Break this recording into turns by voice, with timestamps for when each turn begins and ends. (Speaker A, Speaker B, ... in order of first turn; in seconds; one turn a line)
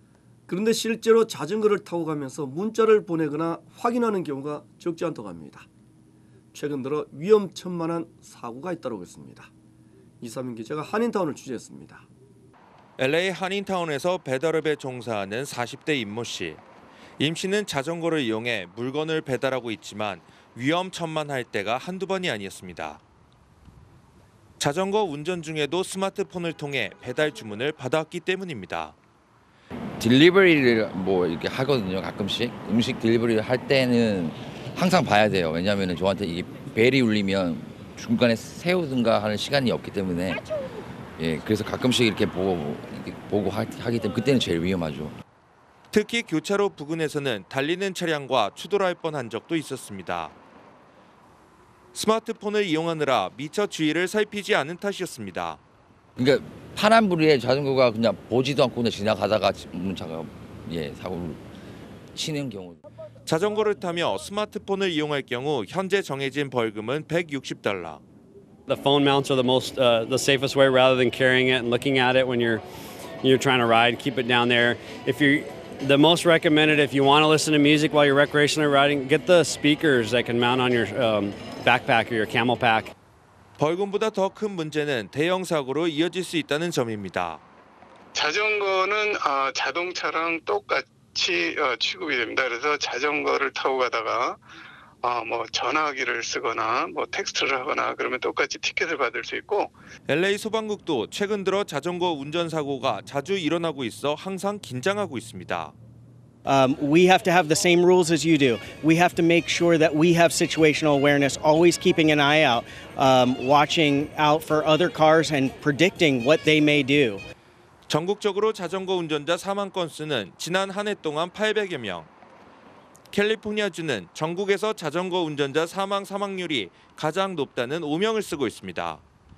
Speaker A: 0.5-5.7
Speaker A: 6.5-9.5
Speaker A: 10.2-12.1
Speaker B: 13.0-16.6
Speaker B: 17.2-23.0
Speaker B: 24.6-28.9
Speaker C: 30.0-40.4
Speaker C: 41.2-45.1
Speaker B: 45.9-50.3
Speaker B: 51.9-55.6
Speaker C: 56.2-61.4
Speaker C: 62.1-62.8
Speaker B: 63.2-68.0
Speaker D: 68.7-72.6
Speaker D: 73.2-82.9
Speaker B: 83.6-87.4
Speaker E: 88.1-94.4
Speaker E: 95.0-99.7
Speaker B: 100.1-105.7
Speaker F: 106.4-117.2
Speaker B: 117.9-122.1
Speaker B: 123.1-129.0